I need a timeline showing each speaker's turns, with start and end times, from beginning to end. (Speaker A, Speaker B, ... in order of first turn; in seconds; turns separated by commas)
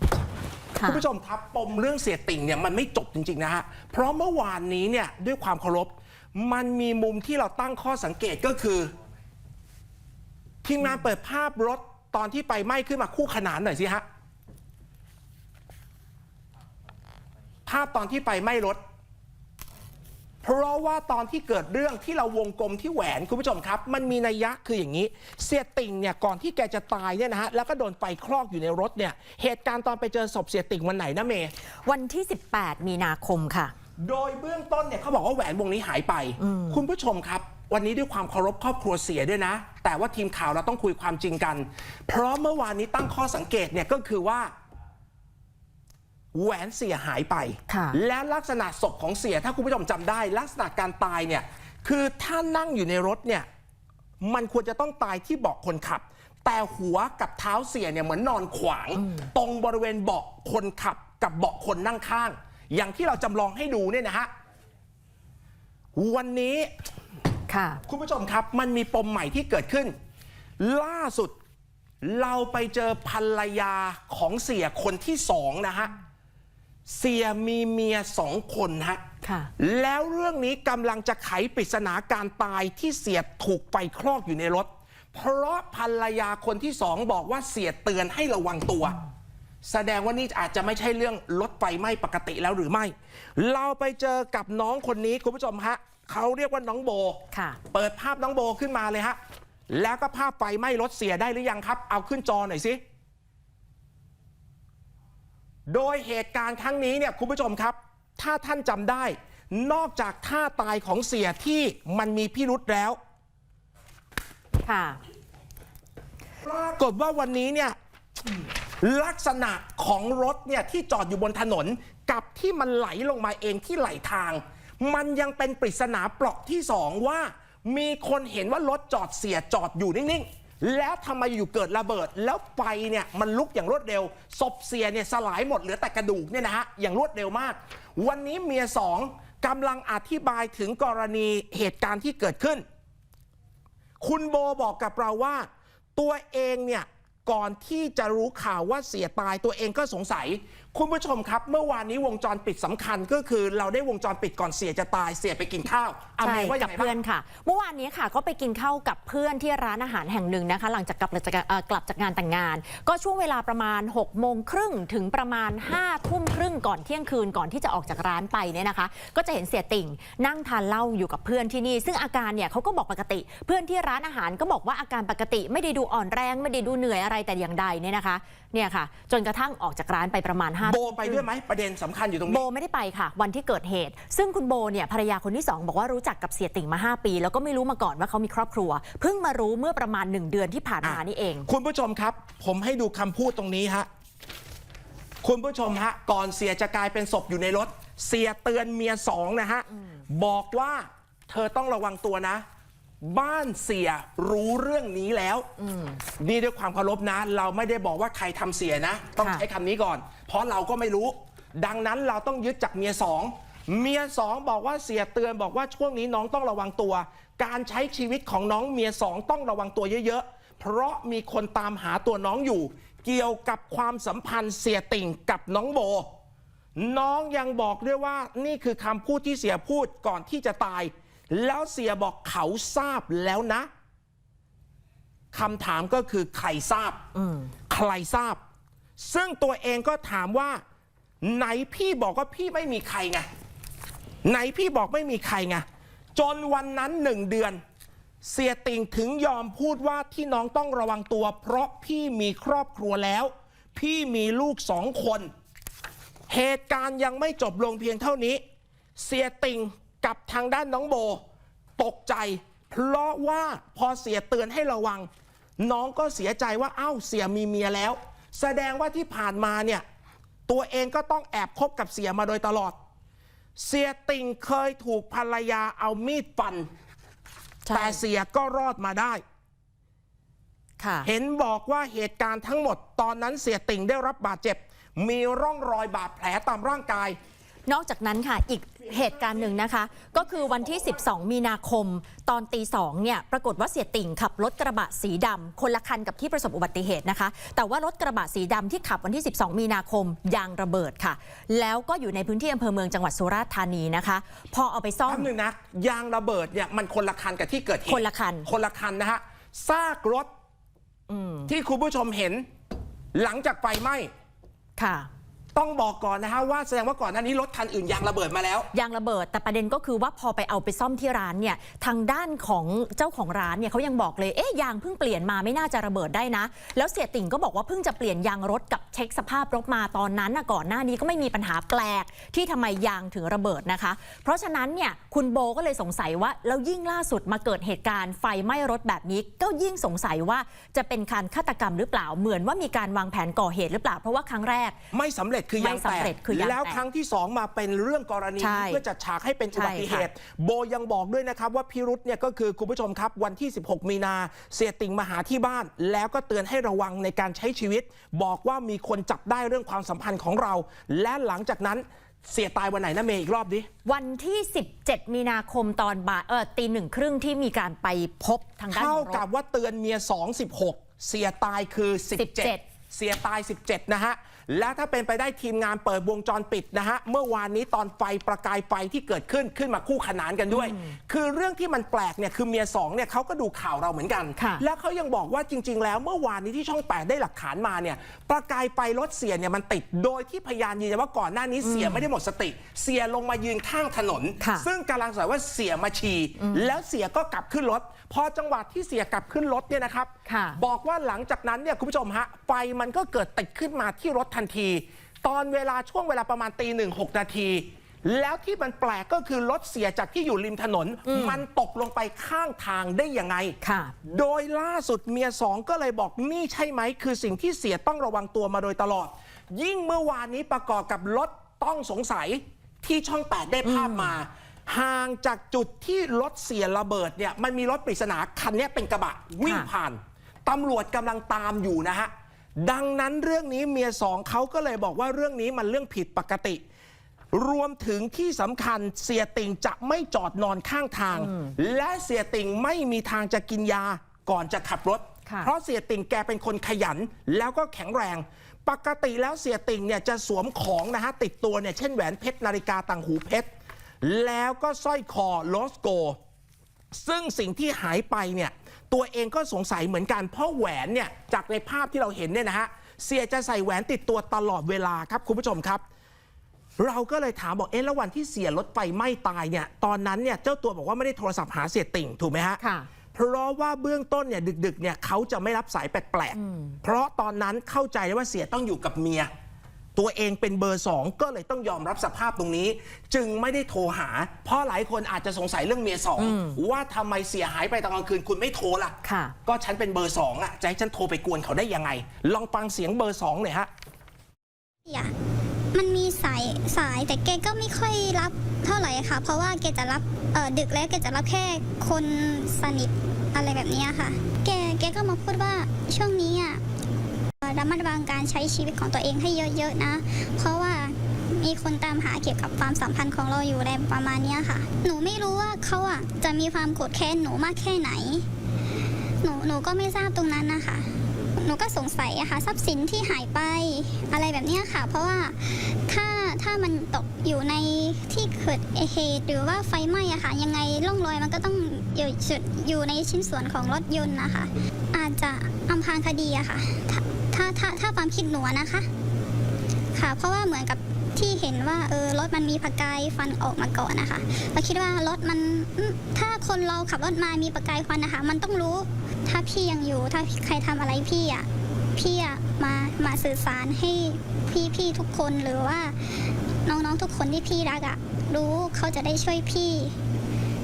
Speaker A: 0.8-1.1, Speaker B: 0.8-8.9, Speaker B: 10.6-14.1, Speaker B: 17.7-18.8, Speaker B: 20.4-31.5, Speaker A: 31.9-33.7, Speaker B: 34.0-44.5, Speaker A: 36.4-36.8, Speaker B: 46.3-53.5, Speaker A: 47.7-48.0, Speaker B: 54.2-64.3, Speaker A: 59.0-59.3, Speaker B: 66.0-66.7, Speaker A: 67.5-67.8, Speaker B: 67.9-70.0, Speaker B: 70.6-71.4, Speaker B: 72.0-75.9, Speaker B: 76.9-79.0, Speaker A: 79.2-79.5, Speaker B: 79.6-89.0, Speaker B: 89.7-99.2, Speaker A: 97.3-97.6, Speaker B: 99.7-102.8, Speaker B: 105.7-113.0, Speaker A: 114.7-115.0, Speaker B: 116.4-117.8, Speaker B: 118.8-142.6, Speaker B: 144.0-156.9, Speaker A: 156.2-181.3, Speaker B: 180.6-182.4, Speaker A: 182.3-191.5, Speaker B: 190.8-193.9, Speaker B: 195.2-202.4, Speaker B: 203.0-205.5, Speaker A: 205.6-206.0, Speaker B: 206.2-226.1, Speaker A: 209.2-209.4, Speaker B: 226.8-233.7, Speaker B: 235.3-237.0, Speaker A: 237.2-237.5, Speaker B: 237.7-238.4, Speaker B: 239.0-240.6, Speaker B: 241.2-243.3, Speaker B: 244.2-247.6, Speaker B: 248.2-255.3, Speaker B: 256.3-258.4, Speaker B: 259.0-261.2, Speaker B: 261.8-269.8, Speaker B: 270.5-272.8, Speaker B: 273.6-276.7, Speaker A: 277.7-278.0, Speaker B: 277.7-279.2, Speaker A: 280.8-281.1, Speaker B: 281.0-287.2, Speaker A: 287.7-305.3, Speaker B: 305.1-310.3, Speaker A: 307.9-308.5, Speaker A: 311.1-311.5, Speaker B: 311.5-312.5, Speaker B: 313.1-314.1, Speaker A: 314.8-315.1, Speaker B: 315.6-318.7, Speaker A: 318.7-344.8, Speaker B: 344.9-363.7, Speaker A: 345.6-346.8, Speaker A: 348.4-348.8, Speaker A: 349.6-350.1, Speaker A: 363.9-369.2, Speaker B: 368.7-436.6, Speaker A: 372.2-372.6, Speaker A: 380.5-380.9, Speaker A: 384.4-384.6, Speaker A: 391.6-392.1, Speaker A: 394.4-394.7, Speaker A: 396.4-396.7, Speaker A: 400.3-400.6, Speaker A: 411.1-411.4, Speaker A: 413.6-413.9, Speaker A: 423.6-424.1, Speaker B: 437.3-453.5, Speaker A: 441.1-441.5, Speaker A: 445.3-445.5, Speaker B: 454.0-456.2, Speaker B: 456.9-465.8, Speaker B: 466.8-472.6, Speaker A: 472.6-472.9, Speaker B: 473.1-479.3, Speaker A: 476.4-476.8, Speaker B: 480.0-493.7, Speaker A: 486.2-486.6, Speaker A: 489.1-489.4, Speaker C: 494.9-495.1, Speaker C: 495.7-506.6, Speaker C: 507.4-518.2, Speaker C: 519.2-538.9, Speaker C: 540.0-559.9